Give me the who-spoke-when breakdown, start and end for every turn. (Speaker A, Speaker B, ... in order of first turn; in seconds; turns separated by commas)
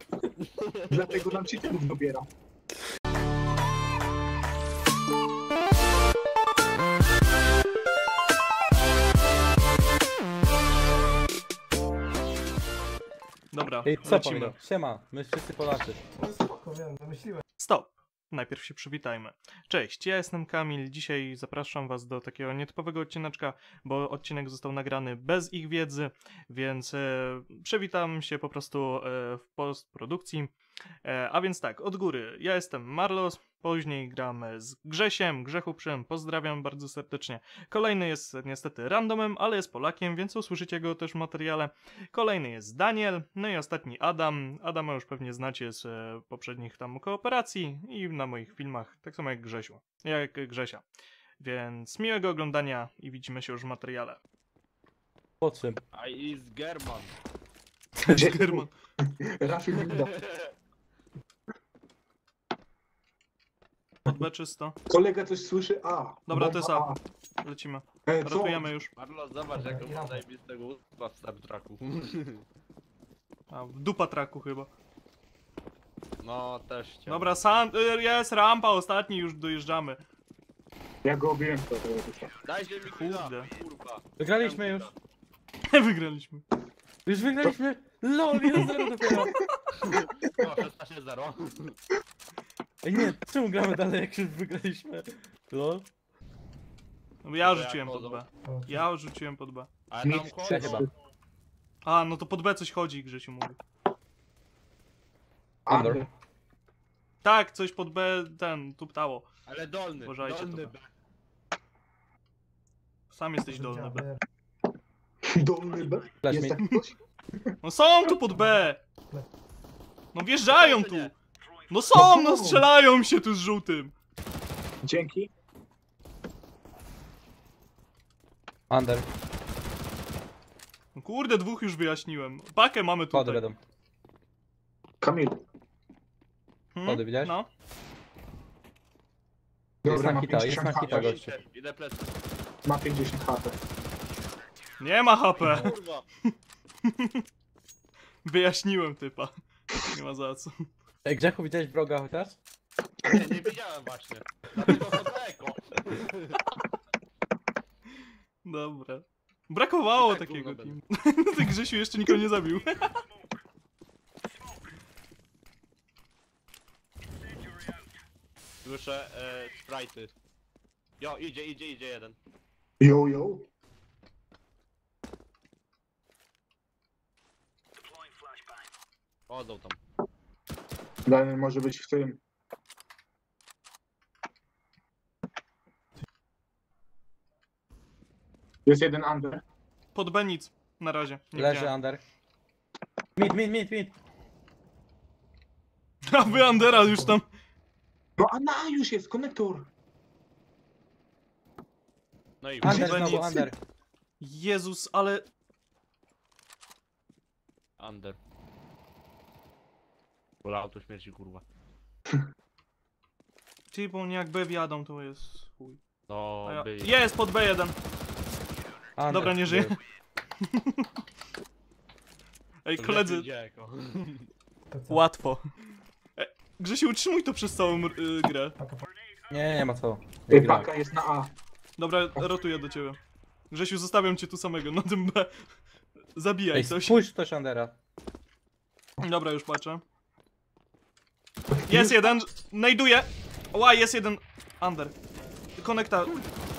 Speaker A: 0.4-1.0, Speaker B: 0.9-2.3, Speaker C: 13.5-14.6, Speaker D: 13.8-16.0, Speaker E: 16.1-17.4, Speaker C: 17.6-30.5, Speaker C: 31.0-50.8, Speaker C: 51.4-54.2, Speaker D: 55.4-55.8, Speaker A: 55.9-57.1, Speaker B: 58.0-58.7, Speaker C: 58.0-58.7, Speaker B: 59.2-60.2, Speaker A: 59.8-60.5, Speaker C: 64.0-64.8, Speaker B: 64.9-67.0, Speaker C: 66.3-66.9, Speaker C: 67.4-68.9, Speaker B: 68.1-68.7, Speaker A: 69.0-72.4, Speaker E: 69.5-70.2, Speaker C: 73.5-74.7, Speaker A: 76.2-77.3, Speaker C: 77.1-80.0, Speaker B: 81.0-82.3, Speaker A: 82.5-84.9, Speaker C: 82.8-83.5, Speaker D: 84.2-84.9, Speaker C: 85.7-86.4, Speaker D: 87.1-89.3, Speaker C: 88.5-89.3, Speaker A: 90.3-91.8, Speaker D: 92.8-95.9, Speaker C: 97.2-99.7, Speaker A: 97.4-98.2, Speaker E: 98.4-98.8, Speaker A: 99.9-100.9, Speaker B: 100.0-100.9, Speaker D: 100.5-100.8, Speaker C: 101.8-103.6, Speaker B: 105.7-106.1, Speaker D: 105.7-106.0, Speaker C: 107.2-109.3, Speaker A: 109.5-110.9, Speaker C: 110.0-110.7, Speaker C: 113.1-114.0, Speaker E: 113.5-114.2, Speaker B: 115.3-117.5, Speaker D: 116.2-116.6, Speaker C: 117.6-118.8, Speaker C: 120.1-121.1, Speaker A: 120.5-121.1, Speaker C: 121.7-123.9, Speaker B: 121.9-122.7, Speaker B: 124.8-125.3, Speaker D: 128.7-129.1, Speaker C: 130.9-133.4, Speaker D: 133.1-133.6, Speaker B: 135.0-135.4, Speaker C: 136.8-137.5, Speaker D: 136.8-137.3, Speaker B: 139.8-141.2, Speaker D: 139.9-141.3, Speaker A: 140.8-142.1, Speaker B: 142.7-143.6, Speaker C: 144.8-145.8, Speaker A: 145.4-146.1, Speaker C: 146.8-147.2, Speaker C: 148.2-150.7, Speaker D: 151.1-152.4, Speaker A: 153.1-156.4, Speaker C: 158.4-162.9, Speaker A: 160.0-160.8, Speaker A: 168.6-170.1, Speaker A: 171.0-172.2, Speaker B: 172.8-173.5, Speaker A: 179.3-179.8, Speaker B: 181.1-182.2, Speaker B: 188.7-189.4, Speaker C: 189.9-191.7, Speaker D: 191.3-192.0, Speaker D: 193.2-194.0, Speaker C: 196.1-197.3, Speaker E: 196.2-197.2, Speaker B: 198.2-199.7, Speaker A: 202.4-202.9, Speaker D: 202.6-203.6, Speaker B: 202.6-203.5, Speaker C: 202.7-203.3, Speaker C: 204.2-205.2, Speaker A: 207.8-208.2, Speaker A: 210.4-211.4, Speaker C: 213.7-215.8, Speaker A: 216.1-216.9, Speaker C: 216.4-217.8, Speaker D: 219.0-219.8, Speaker C: 219.1-219.8, Speaker C: 220.5-220.8, Speaker C: 222.7-223.3, Speaker A: 222.8-224.3, Speaker E: 224.7-225.0, Speaker C: 224.9-225.5, Speaker C: 226.2-228.6, Speaker E: 228.6-228.9, Speaker D: 229.3-230.7, Speaker B: 230.3-231.3, Speaker C: 231.8-233.0, Speaker C: 233.5-235.4, Speaker C: 236.2-237.0, Speaker D: 236.5-237.8, Speaker C: 239.0-239.8, Speaker B: 241.5-242.1, Speaker C: 241.7-244.9, Speaker C: 245.6-246.2